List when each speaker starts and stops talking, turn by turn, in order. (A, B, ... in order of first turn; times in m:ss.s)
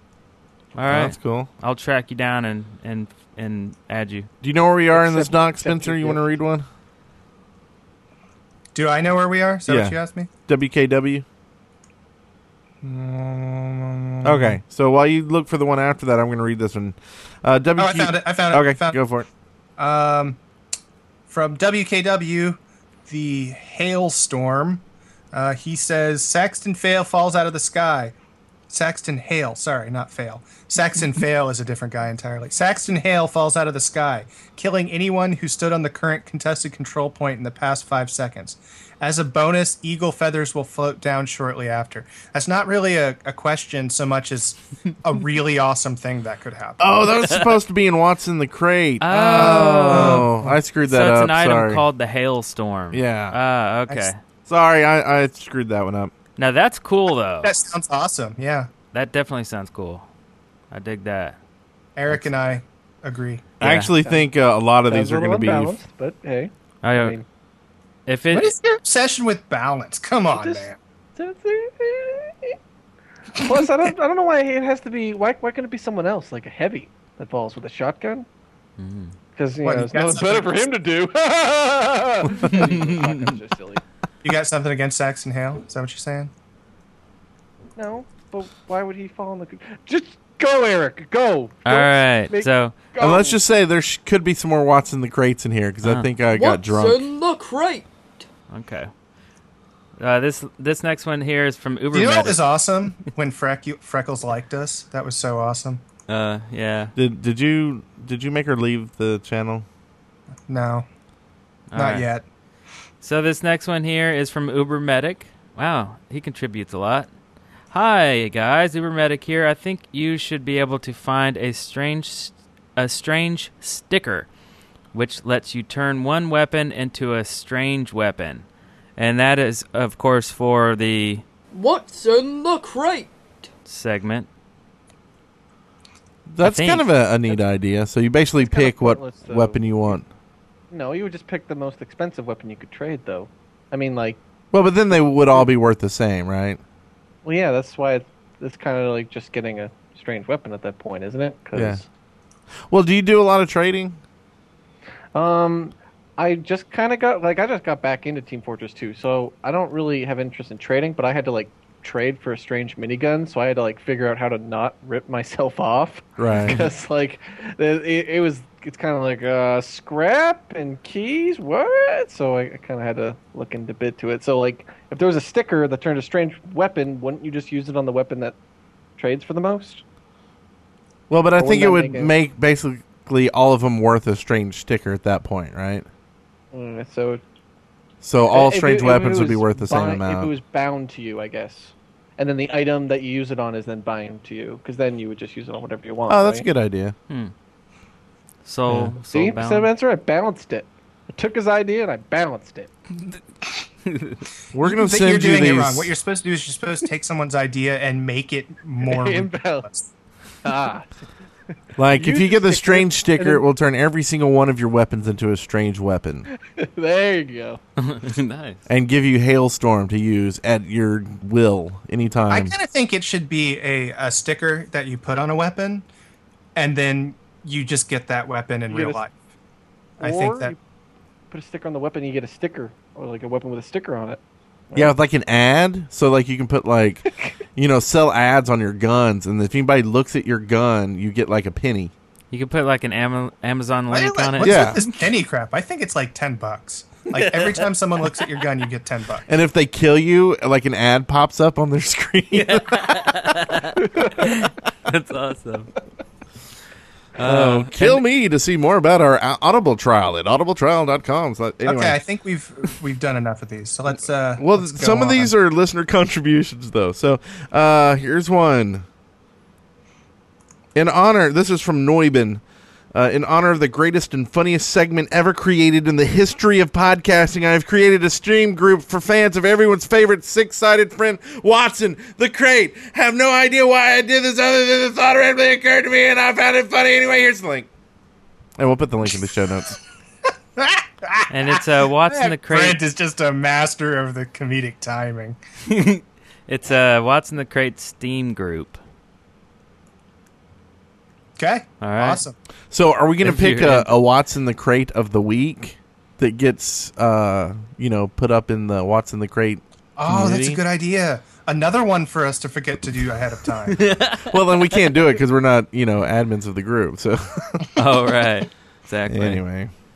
0:00.7-0:04.3 A
0:00.9-0:01.5 B
0:04.4-0:06.6 B
0:04.9-0:06.2 C
0:08.7-0:10.3 D
0:09.7-0:10.0 B
0:10.5-0:11.2 B
0:12.8-0:14.6 D
0:14.2-0:19.3 B
0:17.8-0:19.0 D
0:19.8-0:20.4 D
0:21.3-0:28.1 D
0:28.7-0:47.0 D
0:46.8-0:51.8 B
0:49.0-0:50.3 A
0:49.1-0:50.6 D
0:50.8-0:54.2 A
0:52.9-0:53.4 B
0:54.4-0:56.1 B
0:56.4-0:57.5 A
0:57.4-0:58.7 D
0:58.9-1:00.0 A
1:00.7-1:01.4 A
1:02.0-1:03.5 D
1:03.6-1:05.7 B
1:03.6-1:03.9 A
1:04.9-1:07.2 C
1:06.8-1:07.2 A
1:08.1-1:08.5 A
1:08.3-1:10.8 D
1:10.3-1:12.6 C
1:13.4-1:18.3 C
1:18.8-1:19.2 A
1:19.4-1:23.8 C
1:19.6-1:20.6 D
1:22.4-1:23.3 A
1:24.2-1:26.3 D
1:27.8-1:33.4 C
1:31.6-1:32.8 A
1:33.0-1:37.0 B
1:35.8-1:36.1 A
1:36.3-1:37.8 E
1:38.5-1:38.9 A
1:40.0-1:42.4 A
1:41.9-1:45.8 D
1:46.1-1:46.9 A
1:47.0-1:49.6 B
1:50.5-1:50.9 D
1:51.7-1:52.1 A
1:51.7-1:52.2 D
1:53.0-1:57.1 A
1:57.7-2:04.3 A
2:04.9-2:08.4 A
2:09.0-2:11.2 A
2:11.5-2:13.1 E
2:13.6-2:14.3 A
2:16.3-2:20.1 B
2:16.4-2:16.9 A
2:18.4-2:20.0 C
2:20.7-2:24.2 C
2:24.5-2:26.6 B
2:27.2-2:31.8 C
2:31.5-2:31.8 B
2:32.7-2:34.0 B
2:35.1-2:58.4 C
2:46.2-2:46.7 B
2:59.0-2:59.8 C
3:01.1-3:05.8 B
3:01.4-3:02.1 C
3:06.5-3:07.2 C
3:08.0-3:10.3 B
3:08.3-3:16.4 C
3:16.1-3:16.9 B
3:18.4-3:19.7 A
3:18.7-3:18.9 B
3:19.1-3:22.7 C
3:24.5-3:25.9 B
3:24.6-3:29.9 D
3:28.8-3:29.7 C
3:30.4-3:30.9 C
3:31.8-3:36.3 B
3:31.9-3:33.4 C
3:36.4-3:37.6 C
3:37.8-3:38.6 A
3:38.7-3:42.5 B
3:42.3-3:45.9 D
3:46.5-3:49.1 D
3:48.7-3:49.0 C
3:50.0-3:50.5 D
3:50.0-3:50.6 C
3:51.3-3:54.9 C
3:54.7-4:01.9 B
4:02.3-4:04.9 A
4:03.9-4:09.2 D
4:04.4-4:04.8 B
4:07.2-4:07.6 A
4:09.3-4:13.2 B
4:12.3-4:15.7 A
4:17.2-4:18.0 A
4:17.2-4:22.0 B
4:21.6-4:25.3 D
4:24.4-4:28.8 B
4:30.7-4:32.4 B
4:32.9-4:47.7 B
4:48.6-4:49.8 B
4:50.6-4:55.4 D
4:51.3-4:52.8 A
4:55.7-4:58.8 A
5:01.4-5:02.3 D
5:01.8-5:02.2 A
5:02.7-5:10.6 B
5:03.2-5:03.9 A
5:10.0-5:13.8 D
5:13.7-5:14.3 A
5:14.3-5:17.6 B
5:17.8-5:19.4 A
5:19.1-5:19.7 B